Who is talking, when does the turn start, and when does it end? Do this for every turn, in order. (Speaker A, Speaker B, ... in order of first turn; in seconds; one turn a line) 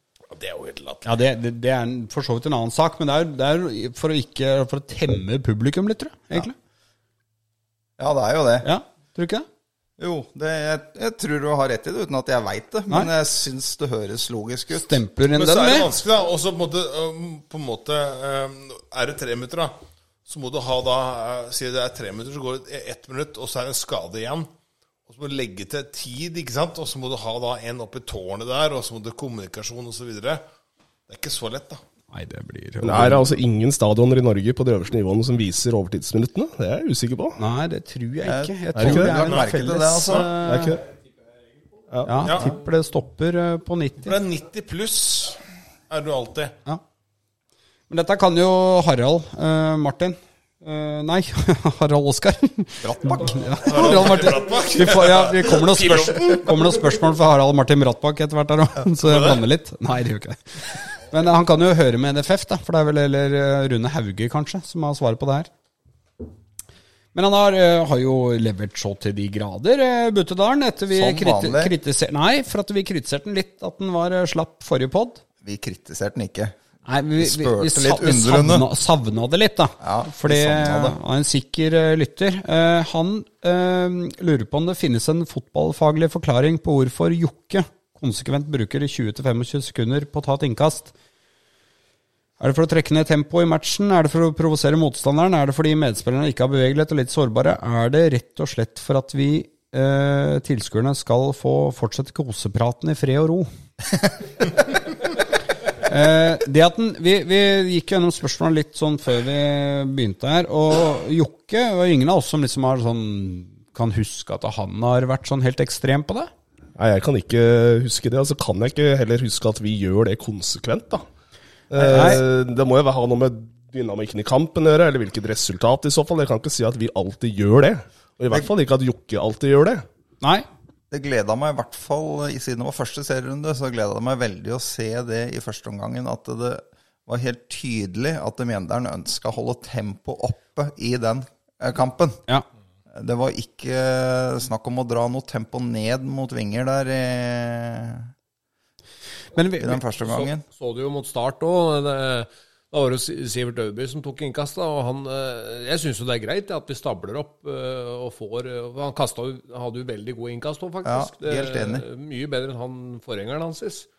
Speaker A: 0.3-1.2
Speaker B: 1.1-6.5
Speaker C: 8.0-8.7
Speaker B: 8.6-9.5
Speaker C: 10.0-15.0
Speaker B: 14.7-15.9
Speaker A: 15.3-24.5
Speaker A: 25.1-30.4
Speaker A: 31.1-31.8
Speaker B: 32.1-33.4
Speaker D: 32.8-37.4
Speaker B: 37.4-40.8
Speaker C: 38.2-40.3
Speaker D: 38.8-39.2
Speaker A: 39.2-39.5
Speaker D: 40.4-40.8
Speaker B: 42.0-44.2
Speaker A: 42.2-42.5
Speaker A: 44.1-46.5
Speaker B: 47.9-65.5
Speaker C: 52.8-53.4
Speaker A: 53.6-56.7
Speaker A: 59.0-59.5
Speaker B: 67.1-75.2
Speaker C: 70.9-71.7
Speaker C: 75.4-76.6
Speaker B: 76.9-90.9
Speaker C: 77.2-78.7
Speaker C: 79.8-81.0
Speaker B: 92.4-103.5
Speaker B: 105.8-116.3
Speaker D: 116.8-121.0
Speaker D: 121.7-129.8
Speaker B: 121.8-122.2
Speaker C: 130.9-142.2
Speaker C: 142.9-148.1
Speaker B: 149.3-149.8
Speaker C: 149.6-150.4
Speaker E: 150.0-163.9
Speaker C: 160.8-161.8